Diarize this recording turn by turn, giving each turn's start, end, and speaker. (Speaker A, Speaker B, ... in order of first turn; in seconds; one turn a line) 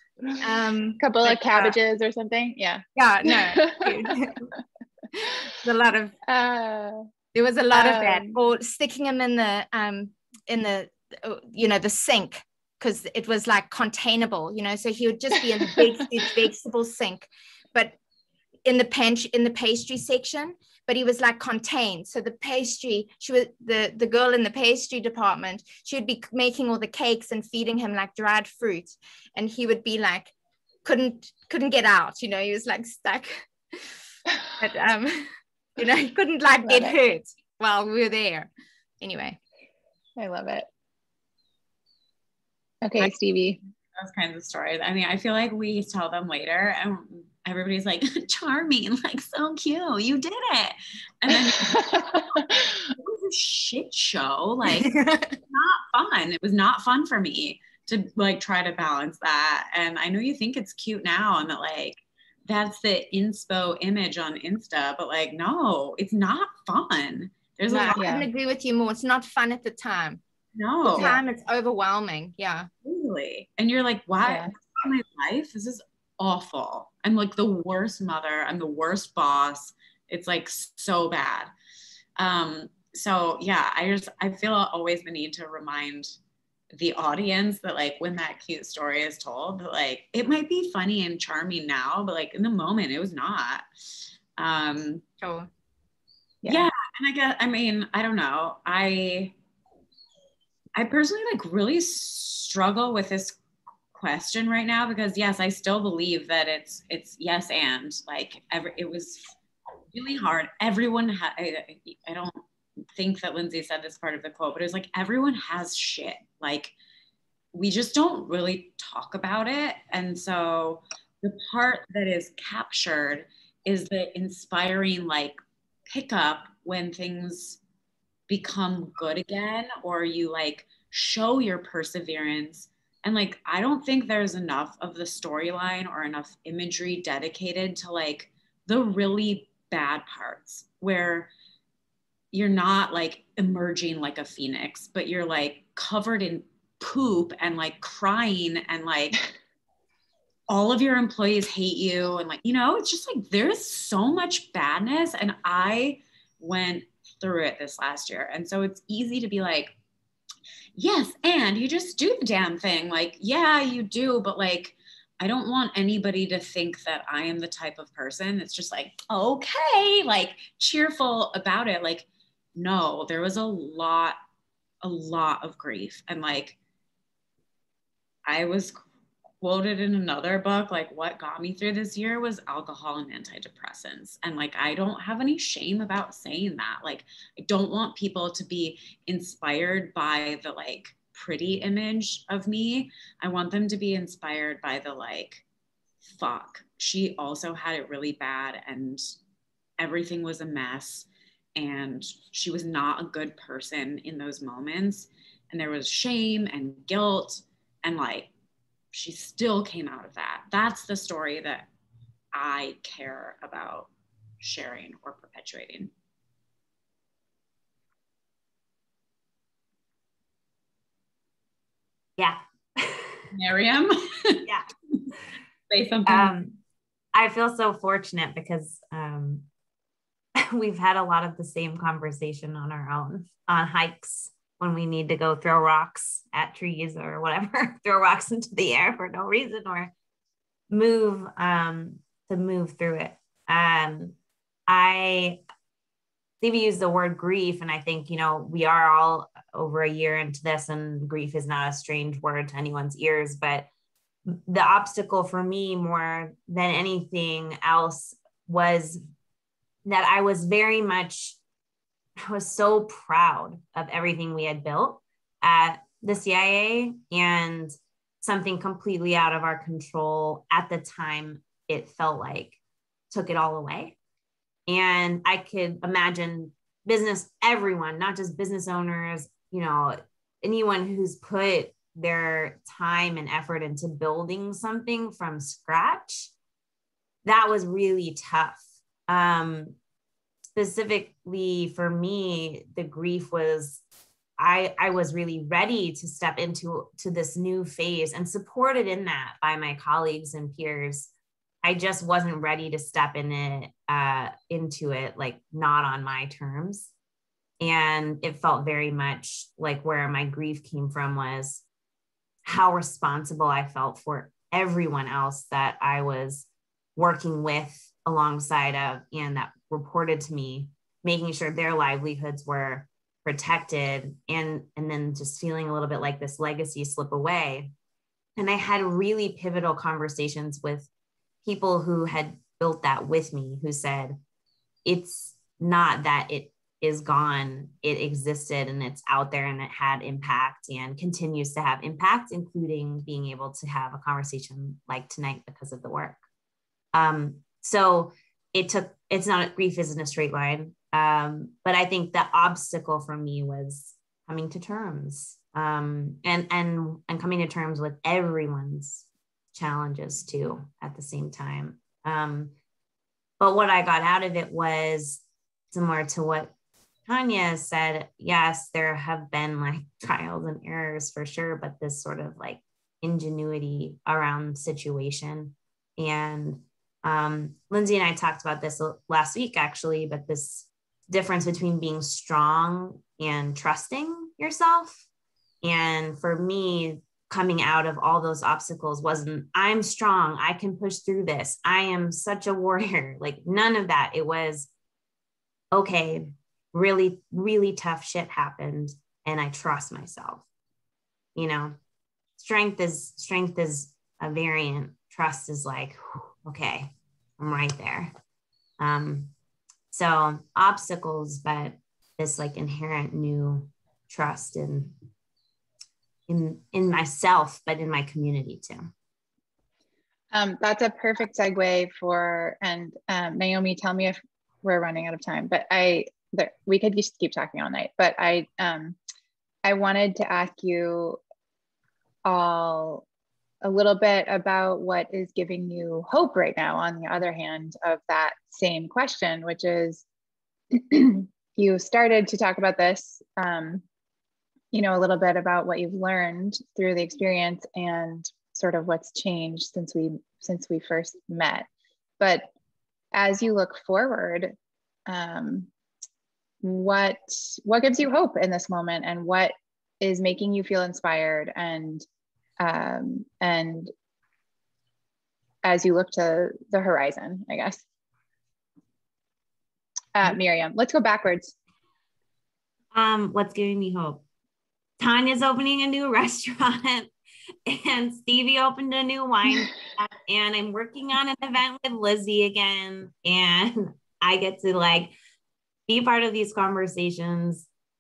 Speaker A: 0.4-1.8
Speaker B: 1.0-4.5
Speaker A: 3.0-4.4
Speaker A: 5.2-6.1
Speaker B: 6.3-7.0
Speaker A: 7.3-17.9
Speaker B: 7.7-8.3
Speaker A: 18.6-30.3
Speaker A: 30.8-33.9
Speaker A: 34.6-38.5
Speaker B: 36.6-37.0
Speaker A: 39.0-39.4
Speaker B: 40.2-40.7
Speaker B: 42.8-43.6
Speaker C: 44.0-68.1
Speaker B: 51.4-52.7
Speaker A: 54.8-55.4
Speaker A: 67.7-70.2
Speaker B: 68.0-68.3
Speaker C: 70.5-71.2
Speaker A: 70.9-72.7
Speaker B: 70.9-71.2
Speaker C: 72.8-81.5
Speaker B: 74.2-74.5
Speaker C: 82.2-86.2
Speaker C: 86.7-93.6
Speaker C: 94.4-95.0
Speaker A: 95.2-95.5
Speaker B: 96.4-96.7
Speaker C: 96.5-99.3
Speaker C: 100.7-103.4
Speaker C: 103.9-109.3
Speaker C: 109.9-112.4
Speaker C: 112.9-116.7
Speaker C: 117.5-127.6
Speaker C: 128.3-141.3
Speaker C: 142.3-149.2
Speaker C: 150.5-159.7
Speaker C: 160.8-174.2
Speaker C: 174.8-176.6
Speaker C: 178.2-178.8
Speaker C: 179.4-195.4
Speaker C: 196.1-199.1
Speaker C: 199.8-208.3
Speaker C: 208.9-211.7
Speaker C: 212.3-215.9
Speaker D: 222.2-223.2
Speaker C: 223.3-225.0
Speaker C: 225.7-226.3
Speaker D: 226.1-226.6
Speaker D: 227.1-229.5
Speaker D: 230.4-239.9
Speaker D: 240.7-244.2
Speaker D: 244.7-245.4
Speaker D: 246.4-253.7
Speaker D: 254.2-259.0
Speaker D: 259.8-261.4
Speaker D: 262.2-272.6
Speaker D: 273.1-274.0
Speaker D: 274.7-286.3
Speaker D: 287.2-289.8
Speaker D: 290.6-293.8
Speaker D: 294.4-301.1
Speaker D: 301.6-306.9
Speaker D: 307.6-311.6
Speaker D: 312.4-327.7
Speaker D: 328.4-330.9
Speaker D: 331.4-334.2
Speaker D: 334.8-346.2
Speaker D: 346.9-362.5
Speaker D: 363.4-366.5
Speaker D: 367.1-385.0
Speaker D: 385.6-394.7
Speaker D: 395.7-400.4
Speaker D: 401.3-401.8
Speaker D: 402.4-408.1
Speaker D: 408.8-409.3
Speaker D: 409.9-414.9
Speaker D: 416.3-418.9
Speaker B: 420.3-429.0
Speaker B: 429.6-431.2
Speaker B: 432.2-433.0
Speaker B: 433.6-440.0
Speaker B: 440.7-443.8
Speaker B: 444.7-451.7
Speaker B: 452.2-452.5
Speaker B: 453.1-454.5
Speaker B: 455.1-455.7
Speaker B: 456.6-462.1
Speaker B: 462.6-463.9
Speaker B: 465.6-467.8
Speaker B: 470.1-471.5
Speaker D: 472.9-474.2
Speaker D: 475.0-477.1
Speaker D: 477.6-485.1
Speaker D: 485.9-487.7